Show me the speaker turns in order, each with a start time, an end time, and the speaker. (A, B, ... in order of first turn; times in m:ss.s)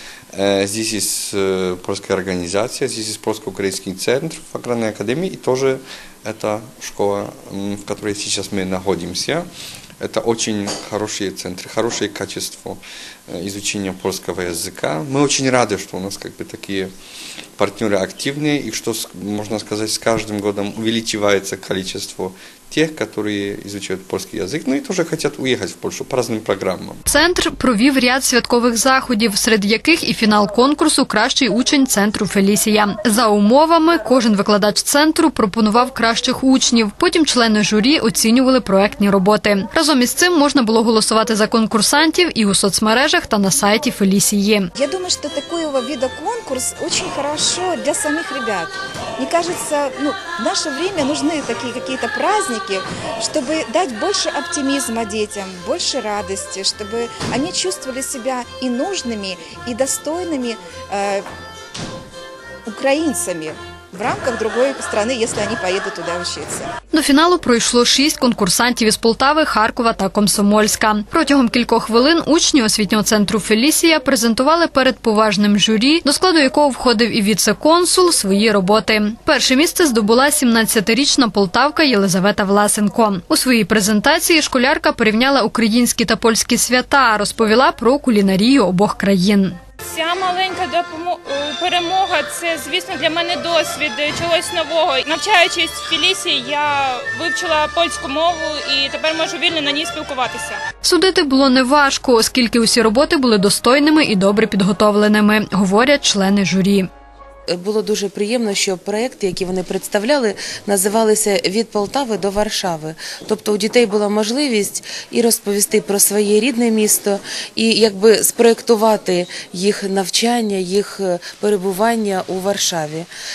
0:00.3-0:09.5 A
0:10.0-0:16.9 A
0:17.6-0:27.0 A
0:27.1-0:44.7 B
0:44.8-1:01.3 C
1:02.7-1:06.7 C
1:06.9-1:29.6 B
1:29.8-1:40.6 D
1:40.8-1:46.9 B
1:47.5-2:03.1 E